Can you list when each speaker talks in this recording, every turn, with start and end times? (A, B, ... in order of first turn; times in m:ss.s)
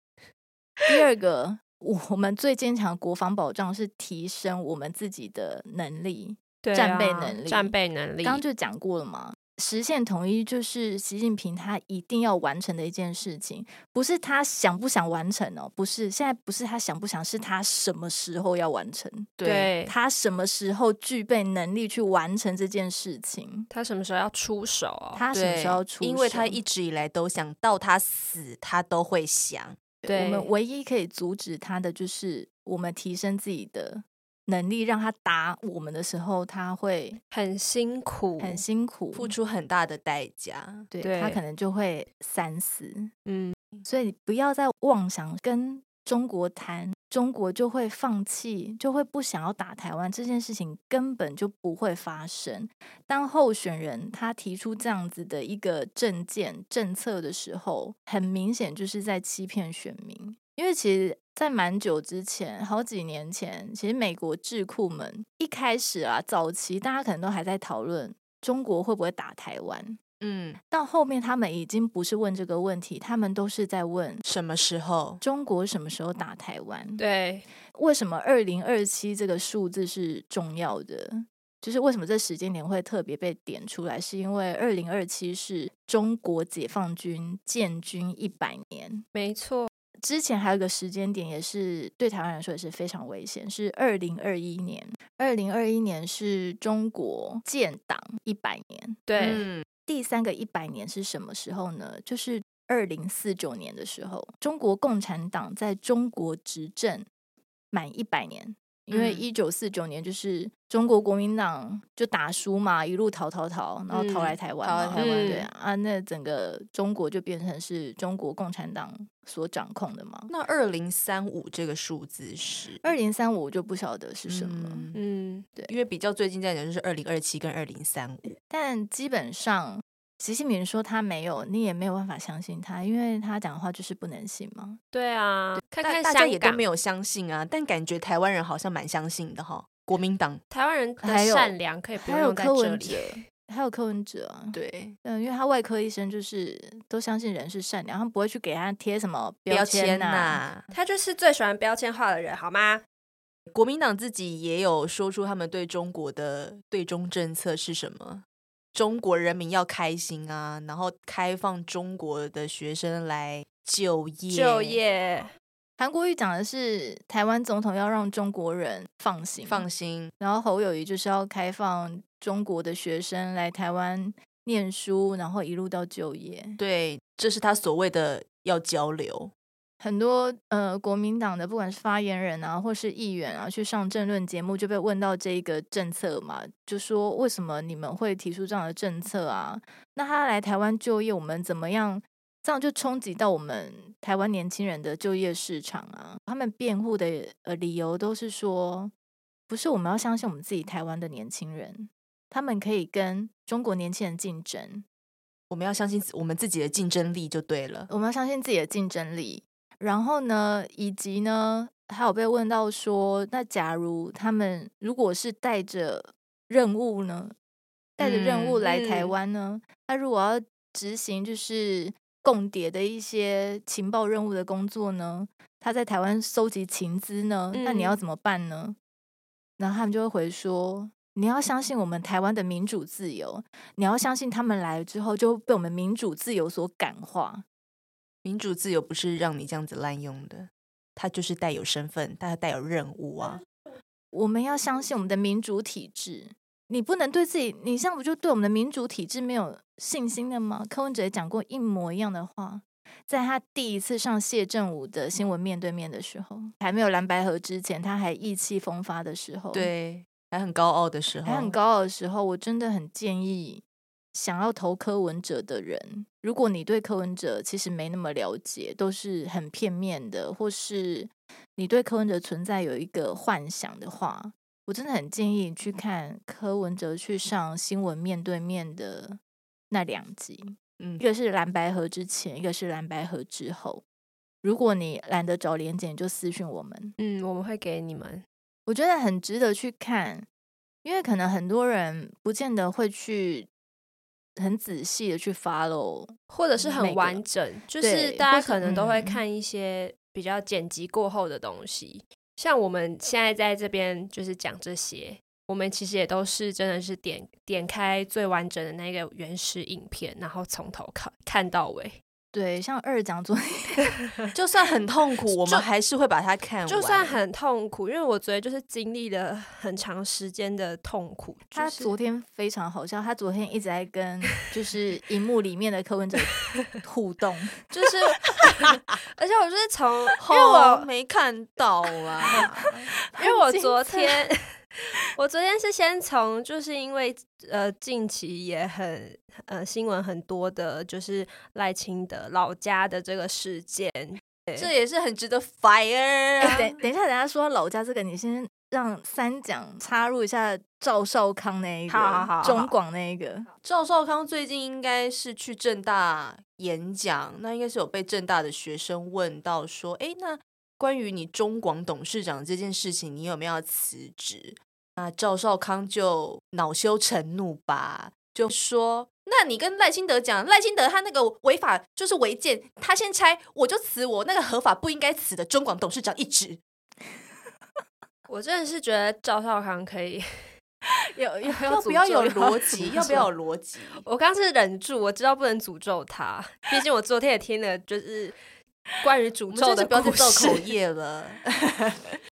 0:00.9-0:19.3 A
0:06.6-0:08.4 B
0:19.4-0:19.7 C
0:19.4-0:20.0 B
0:19.9-0:23.7 A
0:23.7-0:25.2 B
0:25.2-0:26.6 A
0:25.3-0:30.0 C
0:30.0-0:30.5 B
0:30.1-0:37.2 A
0:37.3-0:38.6 B
0:38.4-0:39.4 A
0:39.1-0:40.9 C
0:40.9-0:43.1 A
0:41.0-0:41.4 B
0:43.3-0:43.6 B
0:43.8-1:10.0 A
1:10.2-1:10.6 C
1:10.7-1:14.2 A
1:14.2-1:15.2 C
1:15.2-1:17.0 A
1:17.0-1:17.4 B
1:17.7-1:29.0 A
1:29.1-1:29.7 B
1:30.0-1:39.0 A
1:39.1-1:39.4 B
1:39.2-1:39.6 C
1:39.9-1:47.1 A
1:47.7-2:00.3 A
1:48.9-1:49.2 C
1:53.9-1:54.4 B
1:54.6-1:55.4 C
1:55.0-1:55.5 B
2:00.3-2:02.9 C
2:02.8-2:04.9 A
2:04.3-2:05.0 C
2:04.9-2:05.5 B
2:05.7-2:08.3 C
2:08.5-2:14.8 A
2:14.9-2:16.6 B
2:15.8-2:20.4 C
2:20.5-2:23.2 B
2:21.0-2:30.4 A
2:24.5-2:25.0 C
2:29.5-2:30.7 C
2:30.7-2:32.8 B
2:33.5-2:44.8 C
2:44.3-2:45.3 B
2:45.8-2:49.7 A
2:49.4-2:50.1 C
2:50.2-2:56.6 A
2:56.6-2:59.3 C
2:59.8-3:18.9 A
3:19.5-3:24.8 A
3:25.5-3:27.9 C
3:27.9-3:37.3 A
3:38.0-3:48.8 A
3:38.0-3:38.6 C
3:38.6-3:39.1 B
3:47.5-3:48.0 B
3:49.6-3:57.4 A
3:58.2-4:03.4 C
4:04.1-4:19.7 A
4:19.5-4:21.6 C
4:21.2-4:23.6 A
4:24.1-4:39.2 A
4:39.7-4:43.8 A
4:44.4-4:47.0 A
4:47.0-4:48.2 B
4:48.7-4:50.3 A
4:50.8-4:53.5 A
4:54.4-4:57.2 A
4:56.3-5:12.0 B
4:57.8-4:59.2 A
4:58.6-4:59.1 C
5:12.3-5:14.0 A
5:14.3-5:17.2 C
5:15.3-5:15.7 B
5:16.7-5:21.9 B
5:21.6-5:27.7 A
5:27.7-5:30.9 B
5:30.2-5:32.8 C
5:33.1-5:34.3 A
5:33.2-5:44.7 B
5:44.6-5:46.8 C
5:46.4-5:53.5 A
5:51.9-5:52.7 B
5:53.6-6:16.6 C
6:18.3-6:20.2 B
6:21.1-6:23.3 A
6:21.6-6:24.0 C
6:23.9-6:28.4 B
6:29.0-6:30.6 B
6:29.5-6:32.2 C